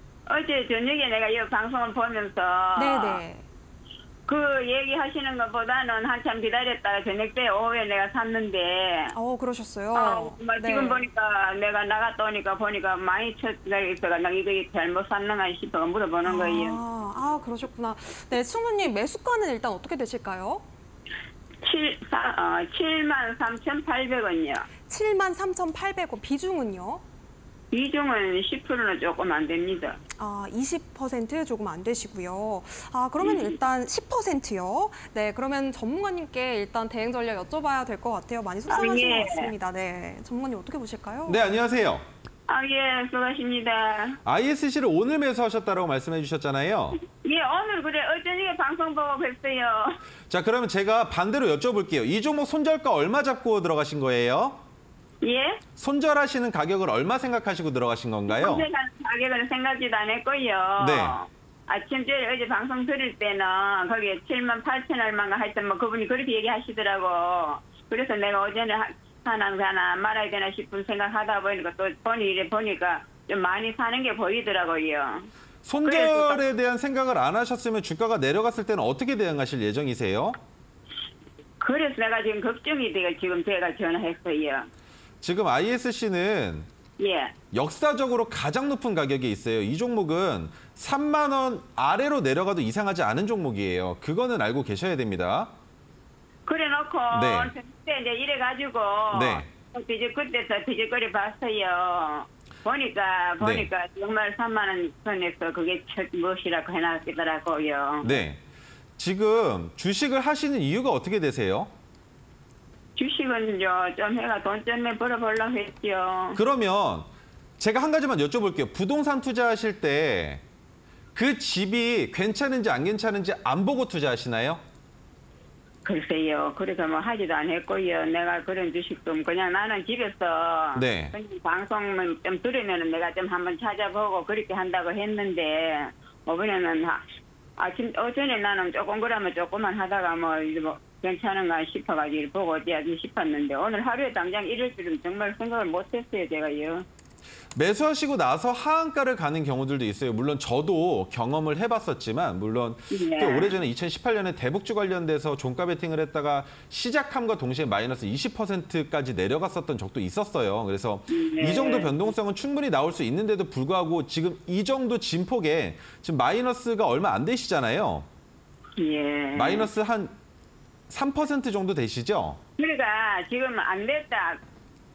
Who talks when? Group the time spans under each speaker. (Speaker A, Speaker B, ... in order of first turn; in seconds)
Speaker A: 0.3-3.2, 4.3-9.1, 9.9-16.8, 21.6-24.7, 27.7-30.0, 33.2-33.5, 38.7-39.5, 42.5-44.2, 47.1-50.0, 55.2-55.6, 58.3-75.3, 75.8-76.4, 81.6-84.7, 87.0-87.3, 96.5-108.2, 113.0-116.4, 125.8-137.0, 137.6-146.8, 152.9-153.6, 161.1-162.0, 168.8-169.7, 172.6-174.4
Speaker B: 2.8-3.5, 9.1-11.0, 16.2-20.6, 24.9-27.0, 30.2-41.4
Speaker C: 41.2-42.1, 44.2-47.0, 50.3-54.6, 55.8-58.6, 60.8-61.2, 75.6-80.4, 85.2-86.7, 87.5-95.5, 97.1-97.5, 99.1-99.5, 103.4-103.7, 108.0-108.4, 109.0-111.7, 116.3-117.1, 117.6-120.4, 121.1-124.6, 130.8-131.1, 147.5-168.1, 169.3-170.1, 170.9-172.4